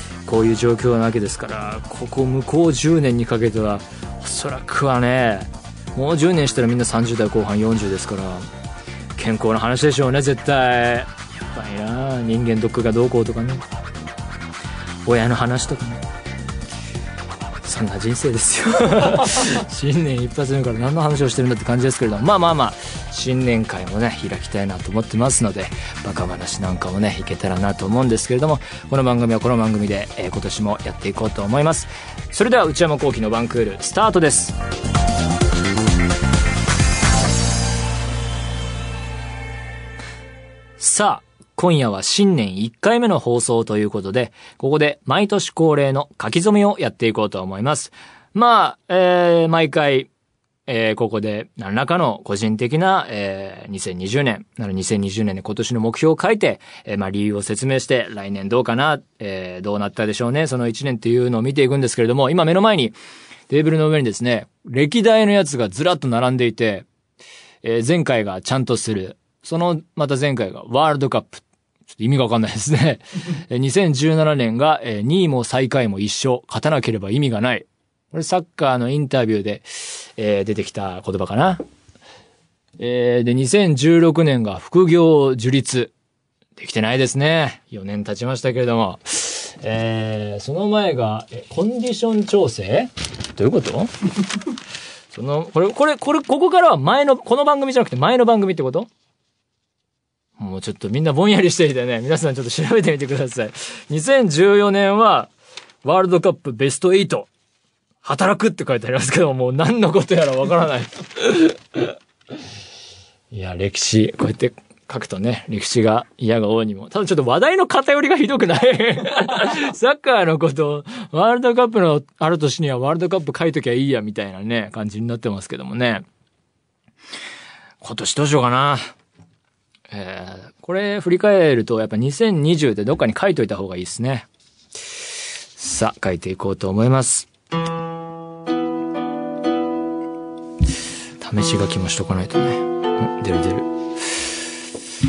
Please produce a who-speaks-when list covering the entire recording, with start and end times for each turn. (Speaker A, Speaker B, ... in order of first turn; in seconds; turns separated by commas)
Speaker A: 0.3-8.5, Speaker A: 9.2-13.7, Speaker A: 15.1-16.0, Speaker A: 17.6-34.6, Speaker A: 40.8-50.1, Speaker A: 50.7-63.0, Speaker A: 63.5-66.9, Speaker A: 67.6-81.6, Speaker A: 82.8-85.9, Speaker A: 86.6-93.9, Speaker A: 95.1-98.9, Speaker A: 100.4-105.3, Speaker A: 105.8-107.3, Speaker A: 108.0-111.9, Speaker A: 113.3-126.0, Speaker A: 127.8-128.9, Speaker A: 129.9-134.3, Speaker A: 135.6-137.3, Speaker A: 141.2-144.4